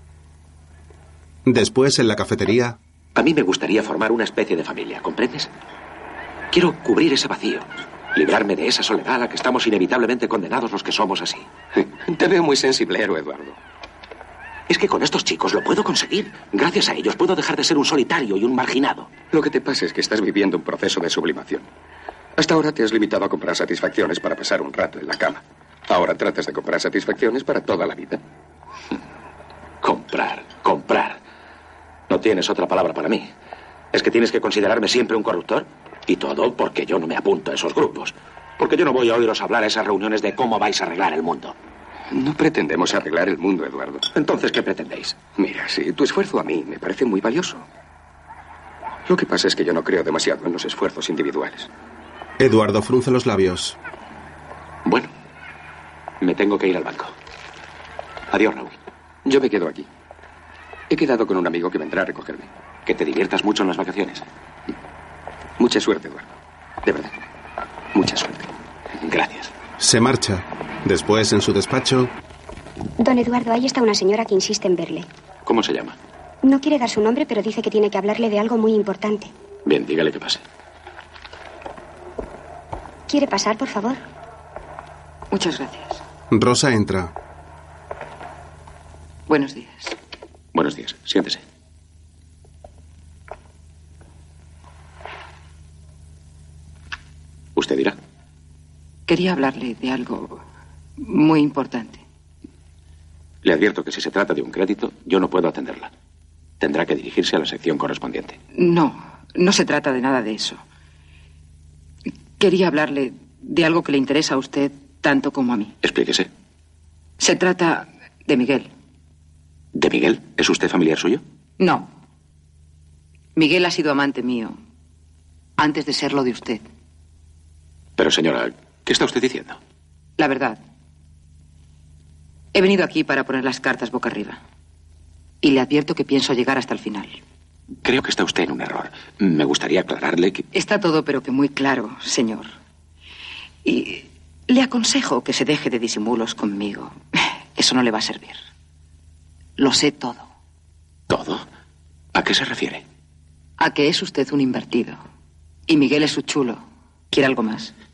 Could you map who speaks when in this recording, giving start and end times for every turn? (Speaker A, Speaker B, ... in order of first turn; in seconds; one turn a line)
Speaker A: 1.4-2.8
Speaker B: 3.1-5.5
Speaker B: 6.5-11.5
Speaker C: 11.8-13.6
Speaker B: 14.7-19.1
Speaker C: 19.3-21.6
Speaker C: 22.4-28.2
Speaker B: 29.8-31.2
Speaker B: 32.1-33.3
Speaker B: 33.9-41.5
Speaker C: 42.1-44.0
Speaker B: 44.1-45.2
Speaker C: 45.4-47.6
Speaker C: 49.1-51.7
Speaker A: 52.4-53.8
Speaker B: 54.9-55.1
Speaker B: 56.2-57.1
Speaker B: 58.3-58.8
Speaker C: 59.2-59.9
Speaker C: 60.9-62.5
Speaker B: 62.9-64.2
Speaker C: 65.6-66.3
Speaker C: 66.8-67.1
Speaker C: 67.9-68.5
Speaker B: 69.0-69.5
Speaker A: 69.8-72.1
Speaker D: 73.0-75.1
Speaker B: 75.4-76.0
Speaker D: 76.4-79.3
Speaker B: 79.7-80.4
Speaker D: 83.1-84.0
Speaker E: 85.3-86.0
Speaker A: 86.3-87.1
Speaker E: 89.3-90.0
Speaker B: 90.5-91.4
Speaker B: 97.5-98.0
Speaker E: 99.1-100.4
Speaker E: 101.0-102.0
Speaker B: 103.4-105.9
Speaker B: 106.6-108.4
Speaker E: 108.5-110.6
Speaker E: 112.4-115.7
Speaker B: 115.8-116.3
Speaker E: 117.2-118.7
Speaker B: 119.7-121.2
Speaker E: 121.6-121.9
Speaker E: 123.3-124.6
Speaker E: 125.6-126.7
Speaker B: 128.0-129.6
Speaker E: 130.2-130.6
Speaker E: 132.5-134.4
Speaker E: 135.4-137.2
Speaker B: 137.8-140.5
Speaker E: 140.5-142.5
Speaker E: 143.6-147.0
Speaker E: 147.5-148.4
Speaker E: 149.6-150.3
Speaker B: 151.1-151.4
Speaker B: 152.1-152.8
Speaker E: 153.6-155.0
Speaker E: 155.7-157.7